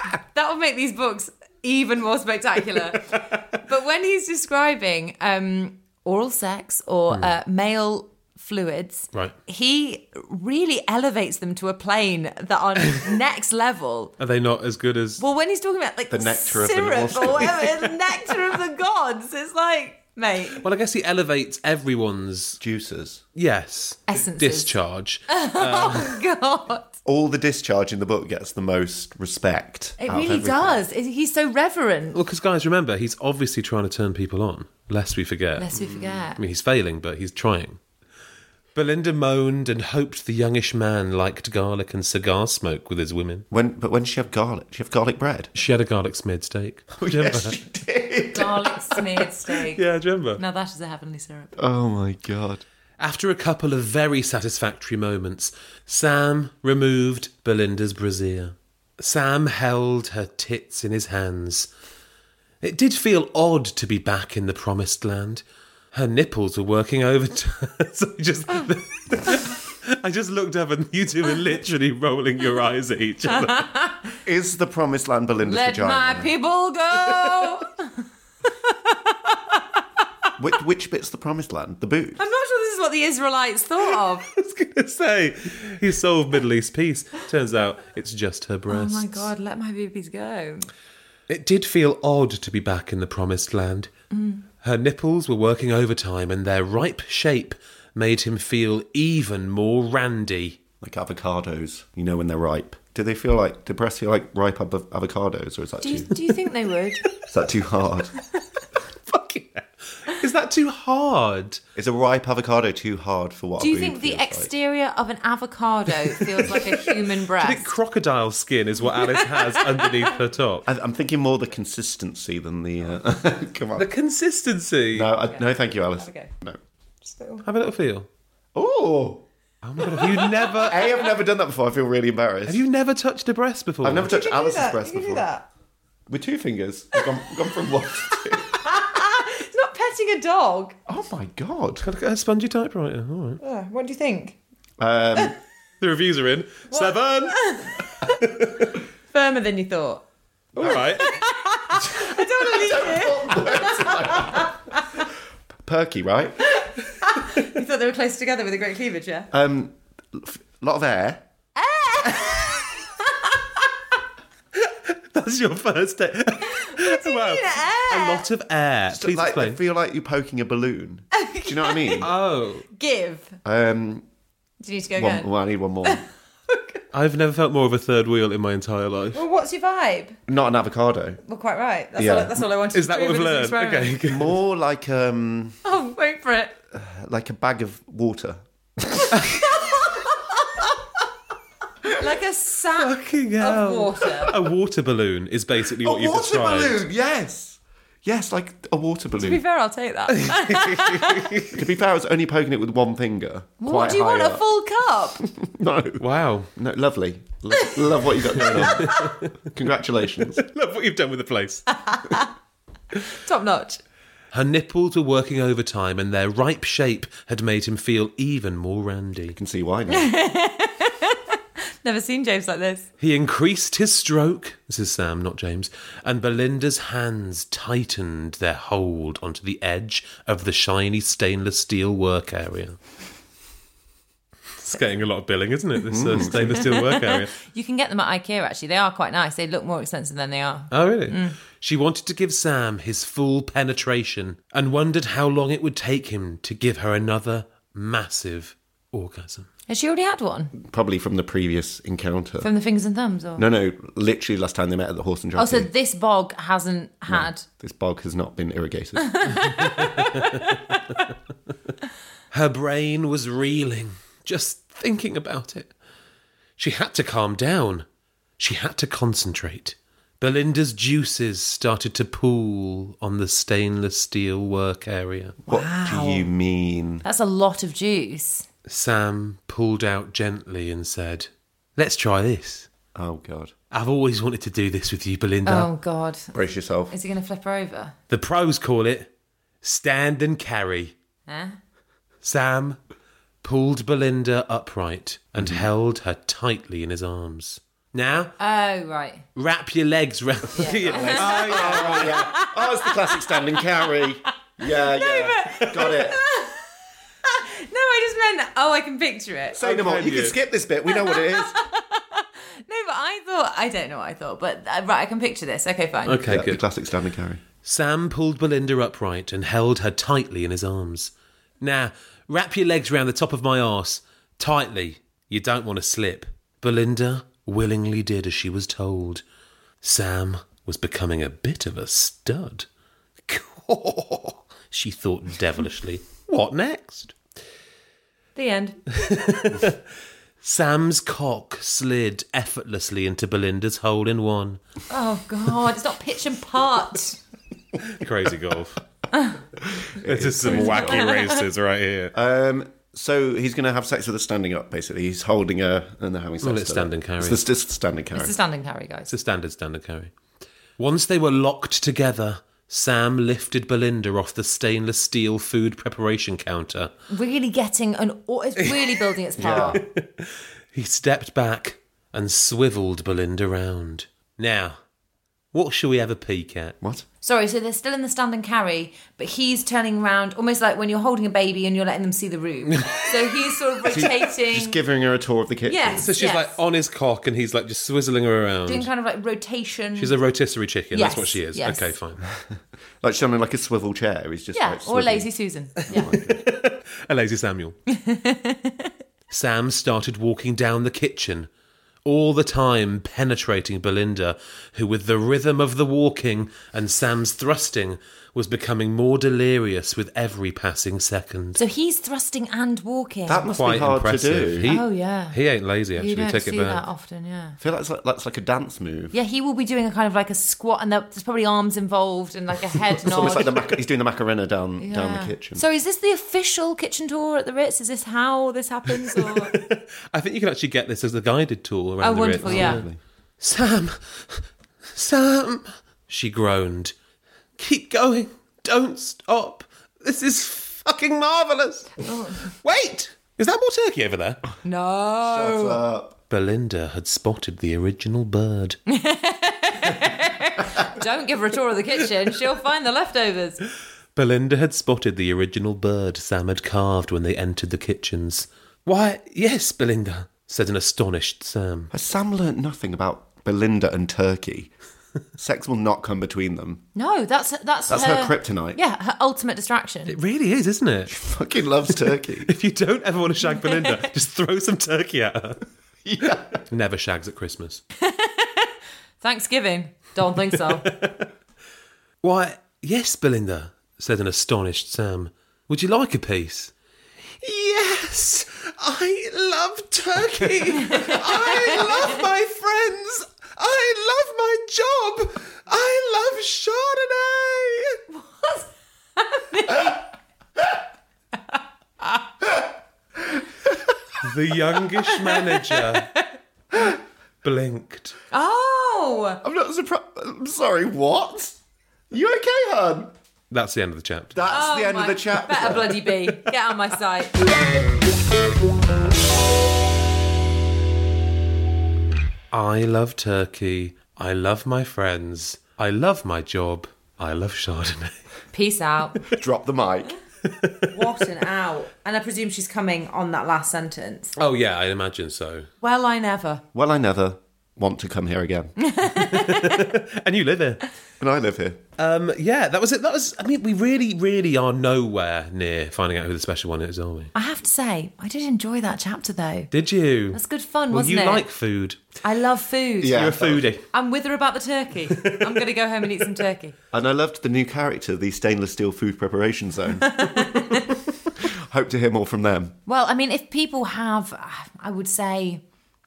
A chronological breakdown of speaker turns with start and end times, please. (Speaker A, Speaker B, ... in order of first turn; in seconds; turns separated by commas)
Speaker A: 0.1-14.1, Speaker B: 14.2-15.2, Speaker A: 15.2-20.6, Speaker C: 16.1-17.9, Speaker B: 20.6-22.6, Speaker C: 22.6-23.2, Speaker B: 23.4-26.2, Speaker A: 24.1-24.8, Speaker A: 25.3-26.9, Speaker C: 27.1-30.8, Speaker A: 30.0-32.2, Speaker B: 32.1-35.7, Speaker A: 35.6-36.4, Speaker C: 35.8-36.2, Speaker B: 36.4-37.8, Speaker B: 38.8-43.5, Speaker C: 43.5-45.5, Speaker B: 45.6-47.6, Speaker C: 47.0-49.1, Speaker A: 48.3-49.8, Speaker B: 49.7-50.4, Speaker A: 50.4-51.6, Speaker C: 51.6-52.6, Speaker B: 53.0-61.7, Speaker B: 62.6-73.7, Speaker A: 73.3-74.0, Speaker C: 74.2-76.3, Speaker A: 75.5-78.0, Speaker A: 78.5-79.8, Speaker C: 80.4-82.2, Speaker A: 82.2-84.3, Speaker B: 84.3-89.3, Speaker A: 88.7-90.7, Speaker B: 91.3-93.9, Speaker A: 94.1-94.4, Speaker B: 94.6-100.6, Speaker C: 100.8-106.1, Speaker A: 105.8-107.0, Speaker C: 107.3-108.1, Speaker B: 109.1-111.6, Speaker C: 111.8-114.5, Speaker A: 113.6-117.7, Speaker B: 116.5-116.8, Speaker B: 117.4-120.7, Speaker A: 118.9-120.1, Speaker C: 120.7-123.9, Speaker B: 123.8-125.1, Speaker C: 124.9-126.6, Speaker A: 125.3-126.3, Speaker A: 127.0-127.5, Speaker B: 127.4-128.1, Speaker C: 128.6-129.3, Speaker B: 129.6-130.8, Speaker A: 129.8-130.9, Speaker C: 130.6-132.6, Speaker B: 132.5-134.1, Speaker C: 133.8-135.3, Speaker A: 134.1-135.5, Speaker C: 136.1-138.6, Speaker A: 138.2-140.8, Speaker C: 140.9-141.9, Speaker B: 141.8-143.4, Speaker A: 143.4-144.4, Speaker C: 144.8-145.4, Speaker B: 145.8-148.7, Speaker A: 146.7-148.2, Speaker A: 149.1-150.0, Speaker B: 150.6-151.2, Speaker C: 150.6-151.0, Speaker A: 151.0-154.8, Speaker C: 152.0-154.6, Speaker C: 155.7-156.6, Speaker A: 156.5-159.3, Speaker C: 159.3-161.2, Speaker A: 161.6-163.7, Speaker B: 164.6-169.6, Speaker A: 166.4-168.2, Speaker C: 168.9-172.1, Speaker A: 171.1-172.1, Speaker B: 172.0-172.7, Speaker A: 172.7-173.4, Speaker C: 173.4-174.1, Speaker A: 174.6-175.3, Speaker C: 175.0-176.0, Speaker A: 175.8-176.8, Speaker B: 176.9-179.2, Speaker A: 179.1-180.2, Speaker C: 180.3-181.2, Speaker A: 181.2-184.0, Speaker C: 182.0-182.4, Speaker B: 182.7-184.4, Speaker C: 184.1-185.6, Speaker A: 185.6-186.6, Speaker C: 186.7-189.2, Speaker A: 189.3-190.7, Speaker A: 191.9-194.3, Speaker B: 192.8-196.8, Speaker C: 195.8-199.4, Speaker A: 199.2-201.4, Speaker B: 200.1-201.6, Speaker C: 201.5-204.4, Speaker A: 203.6-205.2, Speaker C: 205.2-206.0, Speaker B: 206.0-206.5, Speaker C: 206.6-210.4, Speaker A: 208.3-209.0, Speaker B: 208.4-209.3, Speaker B: 210.2-211.7, Speaker A: 211.7-212.3, Speaker A: 213.1-213.8, Speaker B: 214.3-219.4, Speaker C: 219.3-220.1, Speaker A: 219.9-221.2, Speaker A: 221.8-222.9, Speaker B: 223.0-232.8, Speaker B: 234.6-237.3, Speaker C: 235.9-236.7, Speaker A: 236.4-241.4, Speaker B: 240.7-249.5, Speaker A: 249.7-250.5, Speaker C: 250.5-252.5, Speaker A: 252.4-253.5, Speaker C: 253.4-255.7, Speaker A: 255.4-257.5, Speaker C: 257.1-259.4, Speaker A: 259.0-260.8, Speaker B: 259.8-260.5, Speaker B: 262.3-265.7, Speaker B: 266.6-267.9, Speaker B: 268.4-275.4, Speaker C: 275.4-277.0, Speaker A: 275.5-276.3, Speaker A: 277.0-278.5, Speaker B: 278.7-282.7, Speaker C: 282.9-283.5, Speaker B: 283.7-285.7, Speaker A: 285.4-286.4, Speaker C: 286.3-286.9, Speaker A: 286.9-287.9, Speaker B: 288.1-289.1, Speaker B: 289.6-290.9, Speaker A: 291.3-291.6, Speaker B: 292.2-292.8, Speaker B: 293.4-298.4, Speaker C: 295.4-295.7, Speaker A: 298.4-299.2, Speaker B: 299.4-302.2, Speaker A: 300.5-303.3, Speaker C: 300.6-306.2, Speaker A: 304.6-306.7, Speaker A: 307.2-309.6, Speaker C: 309.5-311.6, Speaker B: 309.6-310.4, Speaker A: 310.9-316.2, Speaker B: 316.1-316.6, Speaker C: 316.3-317.4, Speaker B: 317.6-329.2, Speaker B: 329.8-332.7, Speaker B: 333.3-337.2, Speaker A: 338.4-339.2, Speaker B: 338.9-339.8, Speaker B: 340.4-344.6, Speaker A: 344.9-347.2, Speaker B: 347.8-348.8, Speaker A: 349.1-349.4, Speaker C: 349.7-351.1, Speaker B: 350.0-352.1, Speaker A: 350.4-351.4, Speaker C: 352.1-358.4, Speaker B: 356.4-357.4, Speaker A: 358.1-359.1, Speaker B: 359.1-360.1, Speaker B: 360.8-366.9, Speaker A: 367.1-369.8, Speaker B: 368.6-374.8, Speaker C: 369.4-369.8, Speaker B: 375.5-376.8, Speaker A: 377.2-384.8, Speaker B: 382.8-383.0, Speaker C: 383.9-386.1, Speaker A: 385.7-386.6, Speaker B: 386.0-388.9, Speaker A: 388.7-390.1, Speaker B: 390.0-392.2, Speaker A: 390.9-391.9, Speaker C: 392.4-395.3, Speaker A: 394.5-396.2, Speaker C: 395.9-396.4, Speaker B: 395.9-397.8, Speaker A: 397.9-398.9, Speaker B: 399.3-401.5, Speaker B: 402.1-411.6, Speaker A: 411.6-413.5, Speaker C: 413.3-414.7, Speaker B: 413.5-416.8, Speaker A: 414.6-415.4, Speaker A: 416.0-417.6, Speaker C: 417.6-419.1, Speaker A: 419.1-423.6, Speaker C: 422.9-425.6, Speaker A: 424.8-429.6, Speaker B: 429.1-432.9, Speaker A: 432.0-432.8, Speaker C: 432.4-433.0, Speaker B: 433.4-436.9, Speaker B: 437.6-444.4, Speaker A: 442.0-442.5, Speaker A: 444.6-445.8, Speaker C: 445.2-446.2, Speaker B: 446.3-448.8, Speaker A: 448.9-453.6, Speaker B: 454.1-461.9, Speaker C: 461.9-464.7, Speaker C: 465.4-466.8, Speaker A: 466.9-470.1, Speaker C: 467.9-468.8, Speaker B: 470.1-471.2, Speaker C: 471.1-472.5, Speaker B: 471.9-475.6, Speaker A: 473.6-473.9, Speaker C: 476.1-476.6, Speaker B: 476.7-477.8, Speaker A: 478.0-480.9, Speaker B: 480.7-481.3, Speaker B: 482.2-486.7, Speaker B: 487.4-498.0, Speaker A: 490.9-492.2, Speaker A: 498.1-500.1, Speaker C: 503.2-503.8, Speaker B: 504.2-506.1, Speaker A: 505.2-506.2, Speaker B: 507.4-508.1, Speaker A: 508.3-509.4, Speaker C: 509.4-511.6, Speaker C: 512.1-513.1, Speaker B: 513.5-514.4, Speaker C: 514.3-516.3, Speaker A: 514.5-517.4, Speaker B: 522.5-528.1, Speaker A: 528.5-529.2, Speaker C: 529.3-530.1, Speaker B: 530.5-530.9, Speaker A: 530.9-534.4, Speaker B: 534.4-535.7, Speaker A: 535.8-536.6, Speaker C: 536.7-538.8, Speaker A: 538.9-539.9, Speaker B: 539.1-540.8, Speaker C: 541.2-541.8, Speaker B: 542.0-547.3, Speaker A: 547.4-549.7, Speaker B: 549.7-552.1, Speaker A: 550.3-551.5, Speaker A: 552.2-553.3, Speaker C: 553.0-553.7, Speaker B: 553.1-553.9, Speaker A: 553.9-556.8, Speaker B: 555.1-555.6, Speaker C: 556.9-560.4, Speaker A: 560.0-560.9, Speaker C: 561.4-562.8, Speaker A: 562.9-565.6